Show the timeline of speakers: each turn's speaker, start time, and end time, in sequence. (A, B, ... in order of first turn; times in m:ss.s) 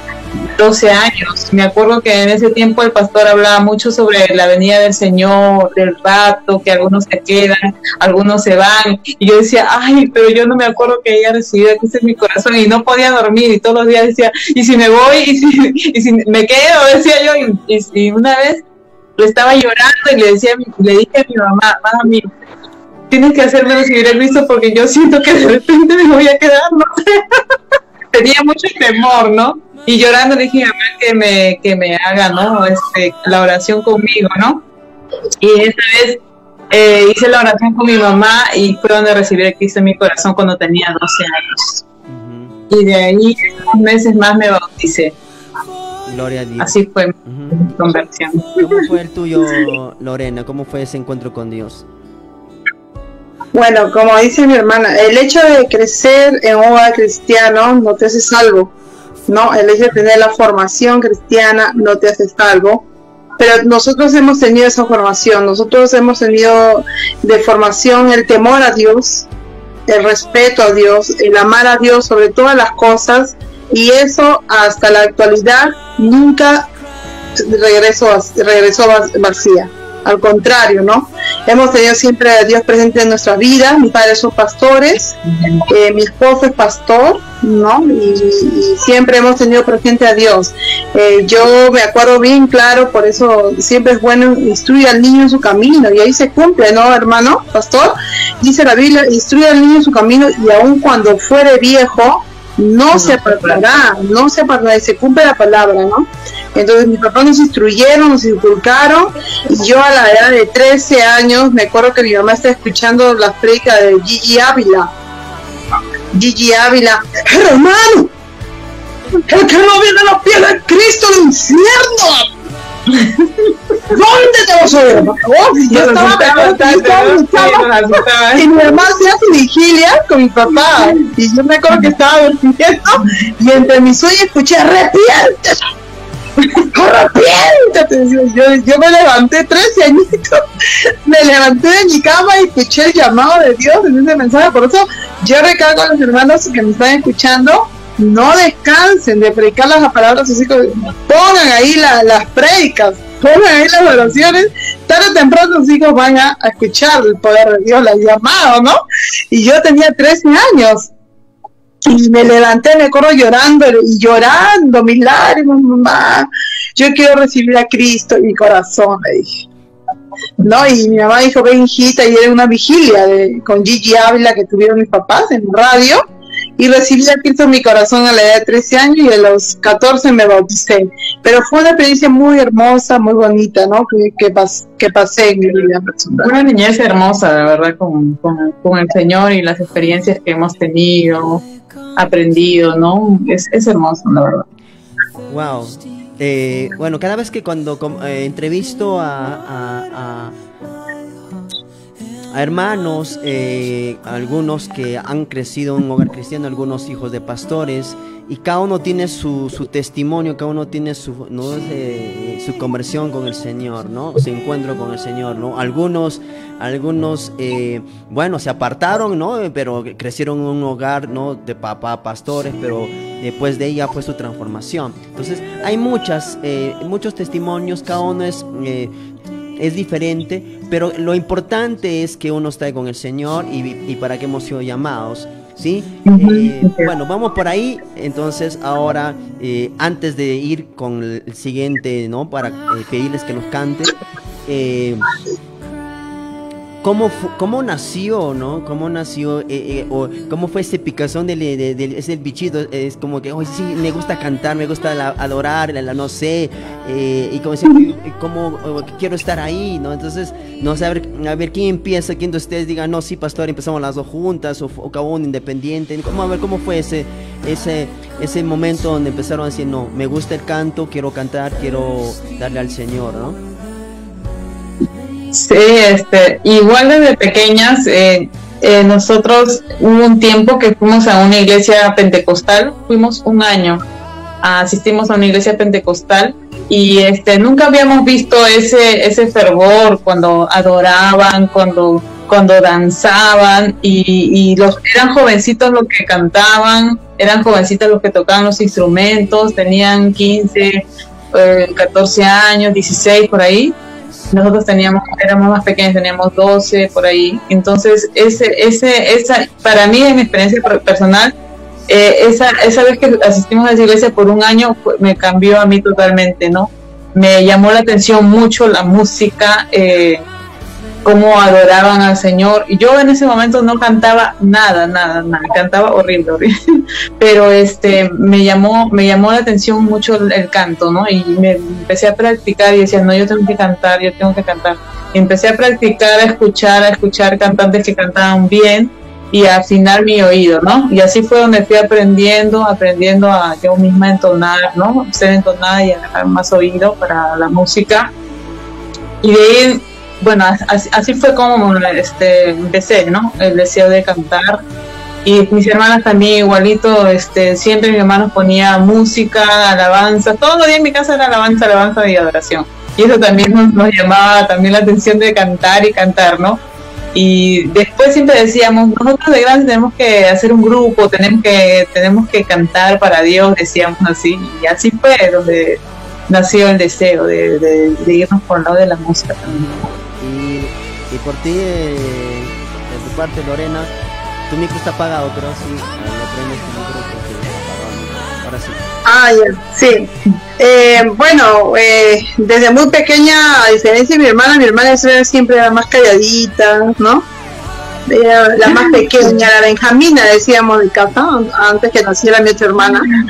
0:00.6-0:18.6 A
0:19.2-0:22.3 A
0:23.1-0:27.4 A
0:28.1-0:34.6 A
0:35.4-0:41.8 A
0:42.1-0:42.6 B
0:42.7-0:45.2 A
0:46.1-0:47.7 B
0:46.6-0:48.5 A
0:48.6-0:51.9 B
0:53.5-0:58.7 C
0:59.3-1:02.9 C
1:03.4-1:09.3 C
1:09.9-1:16.7 C
1:17.4-1:25.2 C
1:25.7-1:54.9 C
1:42.9-1:43.7 A
1:56.1-1:58.1 C
1:59.3-2:02.3 C
2:02.9-2:03.5 A
2:03.9-2:07.7 C
2:05.7-2:08.5 A
2:08.4-2:15.7 C
2:16.7-2:38.8 C
2:39.3-2:40.9 C
2:41.9-2:49.4 C
2:50.4-2:56.0 C
2:56.6-3:06.3 C
3:06.2-3:11.4 A
3:12.0-3:14.4 A
3:15.3-3:20.4 B
3:22.3-3:48.9 B
3:49.6-4:04.0 B
3:56.1-3:56.9 A
4:04.5-4:05.2 B
4:06.8-4:33.4 B
4:35.3-4:43.8 A
4:44.4-5:03.8 A
5:04.3-5:11.4 A
5:11.9-5:20.2 A
5:21.0-5:26.5 A
5:27.2-5:48.1 A
5:49.2-5:54.6 A
5:55.2-6:06.6 A
6:07.1-6:19.7 A
6:20.2-6:23.9 B
6:24.5-6:28.9 B
6:29.0-6:37.3 C
6:38.1-6:43.1 C